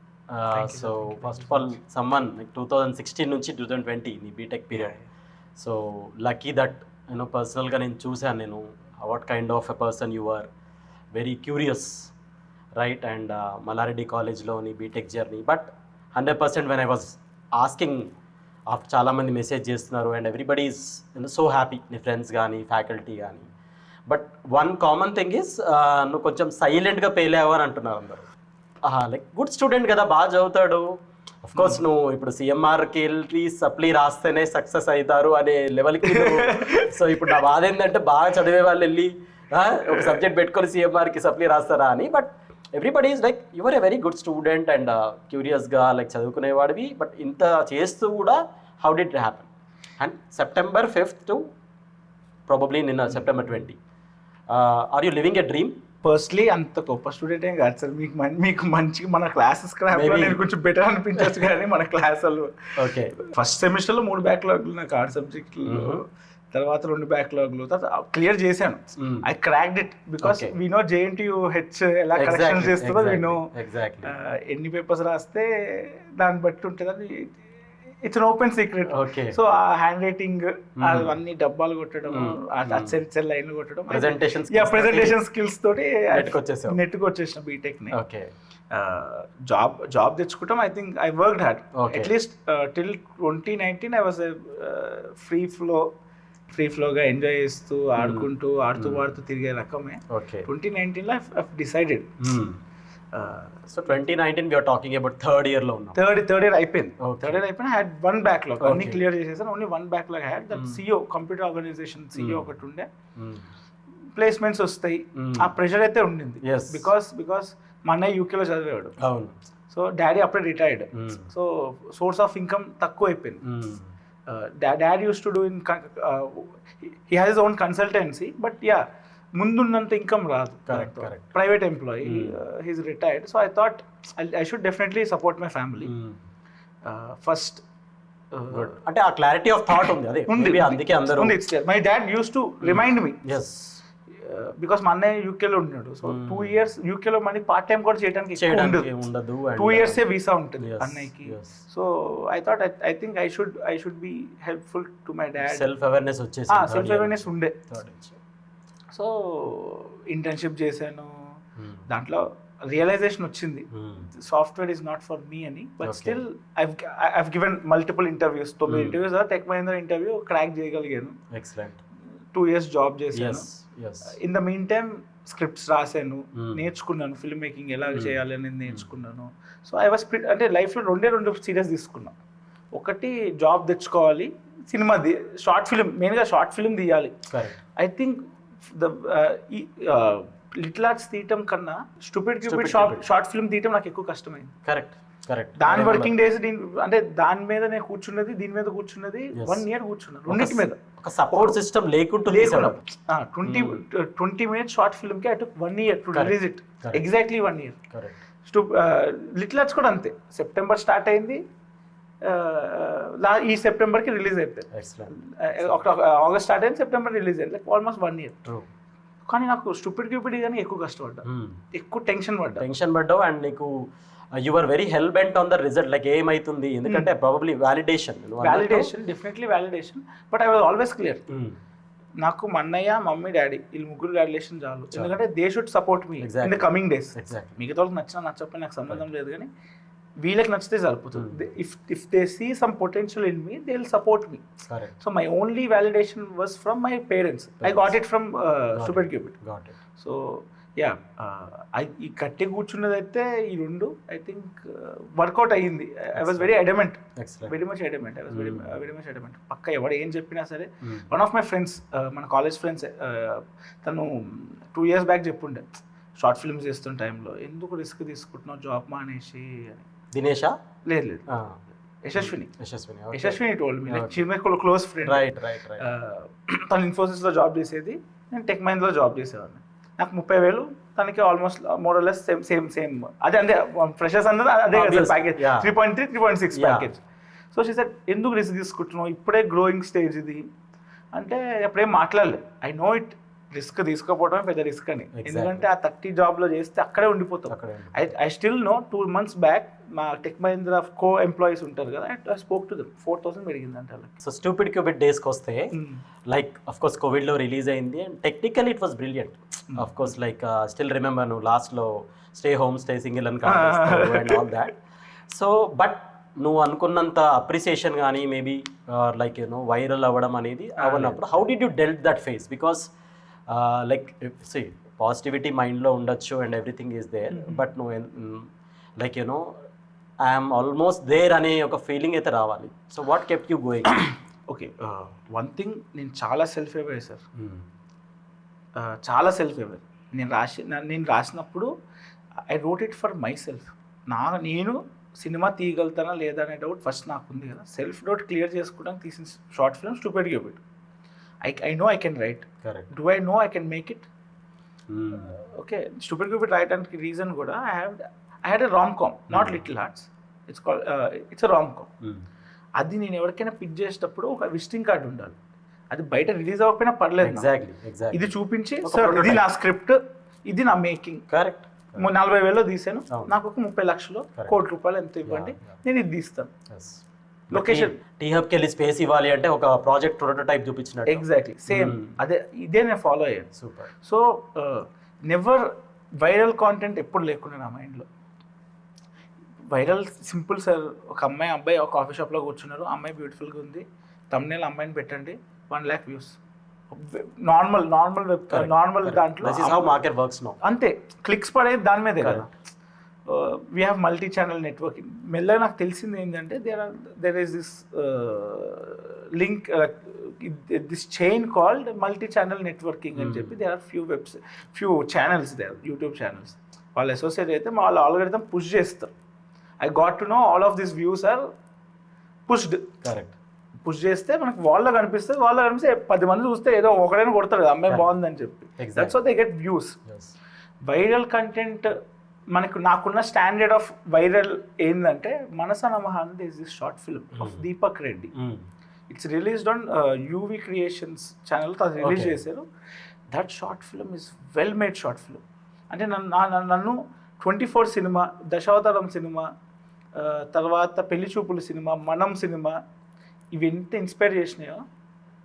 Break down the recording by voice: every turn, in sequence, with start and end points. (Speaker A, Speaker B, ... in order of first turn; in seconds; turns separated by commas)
Speaker A: 0.3-5.0, Speaker B: 0.5-1.8, Speaker B: 4.7-5.1, Speaker A: 5.6-10.5, Speaker A: 11.1-12.1, Speaker A: 12.8-18.1, Speaker A: 18.7-23.5, Speaker A: 24.1-28.2, Speaker A: 28.9-49.5, Speaker B: 31.6-31.8, Speaker B: 36.1-37.4, Speaker B: 39.9-40.2, Speaker A: 50.0-51.4, Speaker A: 52.5-53.8, Speaker A: 54.5-55.8, Speaker B: 56.0-73.5, Speaker A: 59.9-60.4, Speaker A: 62.8-63.1, Speaker A: 65.7-66.0, Speaker A: 69.0-69.2, Speaker A: 70.2-70.5, Speaker A: 72.2-74.2, Speaker B: 74.0-77.4, Speaker B: 78.0-88.0, Speaker A: 78.9-79.4, Speaker A: 80.8-81.1, Speaker A: 82.1-83.0, Speaker A: 83.9-85.2, Speaker A: 86.1-86.8, Speaker A: 87.9-88.3, Speaker B: 88.7-95.9, Speaker A: 91.8-92.1, Speaker B: 96.5-102.1, Speaker A: 98.0-99.0, Speaker A: 100.1-100.5, Speaker A: 102.2-102.6, Speaker B: 103.1-104.0, Speaker A: 103.7-106.0, Speaker B: 106.0-112.9, Speaker A: 107.0-107.4, Speaker A: 108.6-109.0, Speaker A: 110.5-110.8, Speaker A: 112.2-112.5, Speaker A: 113.2-113.5, Speaker B: 114.2-119.0, Speaker A: 115.2-115.5, Speaker A: 116.4-116.9, Speaker A: 119.0-119.3, Speaker B: 119.7-123.4, Speaker A: 120.9-121.3, Speaker A: 123.4-123.9, Speaker B: 124.3-128.8, Speaker B: 129.4-135.9, Speaker A: 130.7-131.2, Speaker A: 132.0-132.4, Speaker A: 135.8-136.2, Speaker B: 136.8-137.6, Speaker B: 138.3-138.7, Speaker A: 138.5-141.4, Speaker B: 139.7-143.2, Speaker A: 142.6-143.8, Speaker B: 144.2-148.9, Speaker A: 146.0-146.6, Speaker A: 148.4-150.0, Speaker B: 149.6-155.7, Speaker A: 150.6-151.5, Speaker A: 155.4-158.2, Speaker B: 156.5-157.6, Speaker B: 158.9-171.2, Speaker A: 161.6-161.8, Speaker A: 163.7-164.1, Speaker A: 165.8-166.2, Speaker A: 168.7-169.0, Speaker A: 171.3-171.8, Speaker B: 172.3-173.5, Speaker A: 173.1-174.2, Speaker B: 174.1-182.2, Speaker A: 176.4-176.6, Speaker B: 182.7-187.2, Speaker A: 187.3-187.6, Speaker B: 187.8-194.6, Speaker A: 192.5-193.0, Speaker A: 194.7-196.1, Speaker B: 195.6-200.8, Speaker A: 199.4-199.6, Speaker A: 200.3-202.8, Speaker B: 201.3-201.6, Speaker B: 202.3-207.8, Speaker A: 203.4-203.8, Speaker A: 206.1-207.0, Speaker A: 207.9-208.2, Speaker B: 208.4-211.4, Speaker B: 212.2-218.4, Speaker A: 214.7-215.8, Speaker B: 219.3-222.6, Speaker A: 221.2-221.6, Speaker A: 222.6-228.9, Speaker B: 228.4-231.2, Speaker A: 231.3-231.6, Speaker B: 232.2-239.5, Speaker A: 236.2-237.5, Speaker B: 240.2-244.4, Speaker A: 241.2-241.4, Speaker A: 244.7-244.9, Speaker B: 245.0-249.3, Speaker A: 247.6-247.9, Speaker A: 248.8-249.7, Speaker B: 250.0-269.9, Speaker A: 256.2-256.5, Speaker A: 257.2-257.5, Speaker A: 258.3-258.7, Speaker A: 270.1-270.6, Speaker B: 270.9-271.3, Speaker A: 271.3-271.6, Speaker B: 272.0-272.5, Speaker A: 272.2-274.2, Speaker B: 273.1-287.0, Speaker A: 275.0-275.9, Speaker A: 284.7-285.7, Speaker A: 286.5-286.9, Speaker B: 287.5-290.4, Speaker B: 291.1-304.1, Speaker A: 295.1-295.7, Speaker A: 297.5-298.0, Speaker A: 304.2-305.7, Speaker B: 305.7-306.0, Speaker A: 306.3-314.7, Speaker B: 309.7-310.1, Speaker B: 313.4-314.5, Speaker A: 315.3-322.9, Speaker B: 320.8-321.2, Speaker A: 323.5-329.6, Speaker B: 327.3-327.6, Speaker A: 330.2-333.9, Speaker B: 333.9-337.2, Speaker A: 337.4-337.7, Speaker B: 338.8-341.7, Speaker B: 342.5-350.6, Speaker B: 351.4-354.1, Speaker A: 354.9-355.3, Speaker B: 355.2-361.9, Speaker A: 359.3-359.6, Speaker B: 362.8-365.4, Speaker B: 365.9-367.5, Speaker A: 367.2-368.3, Speaker B: 368.1-371.2, Speaker A: 368.8-369.4, Speaker A: 371.3-372.1, Speaker B: 372.0-376.5, Speaker A: 375.2-375.7, Speaker A: 376.7-382.2, Speaker B: 377.5-377.9, Speaker B: 381.1-383.5, Speaker A: 383.6-383.9, Speaker B: 384.0-388.1, Speaker B: 389.7-396.4, Speaker B: 396.9-399.9, Speaker A: 398.5-400.6, Speaker B: 400.6-402.5, Speaker A: 402.2-402.5, Speaker B: 403.3-419.1, Speaker A: 413.2-413.6, Speaker B: 419.8-421.4, Speaker B: 422.5-422.9, Speaker A: 423.0-423.4, Speaker B: 423.9-430.0, Speaker A: 428.8-429.2, Speaker A: 430.1-430.3, Speaker B: 430.9-431.9, Speaker B: 432.5-438.3, Speaker A: 438.4-438.6, Speaker B: 439.1-442.6, Speaker A: 442.0-442.4, Speaker B: 443.3-449.5, Speaker B: 450.1-452.8, Speaker B: 453.5-454.8